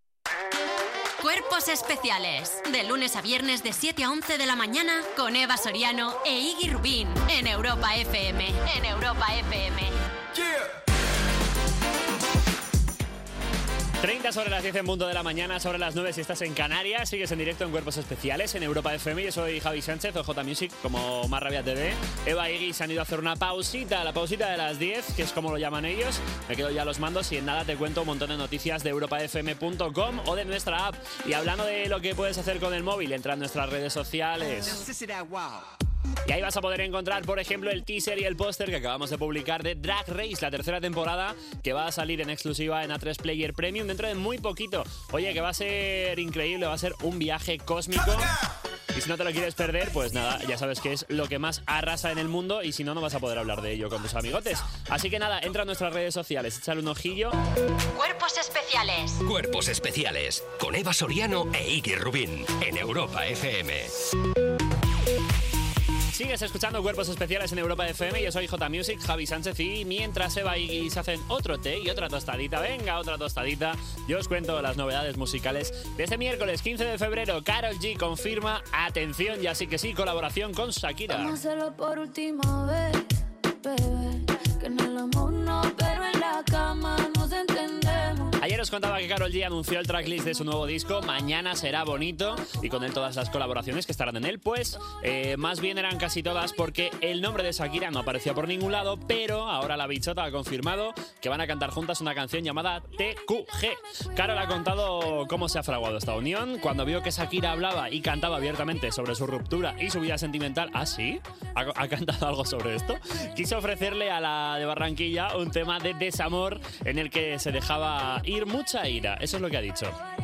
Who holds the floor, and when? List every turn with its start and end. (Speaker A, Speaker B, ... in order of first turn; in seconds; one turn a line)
Speaker A: 1.2-9.9
Speaker B: 14.0-34.9
Speaker B: 36.2-48.3
Speaker B: 48.9-57.3
Speaker A: 57.9-59.2
Speaker C: 59.2-63.9
Speaker B: 66.1-81.4
Speaker D: 81.1-88.3
Speaker B: 88.4-120.0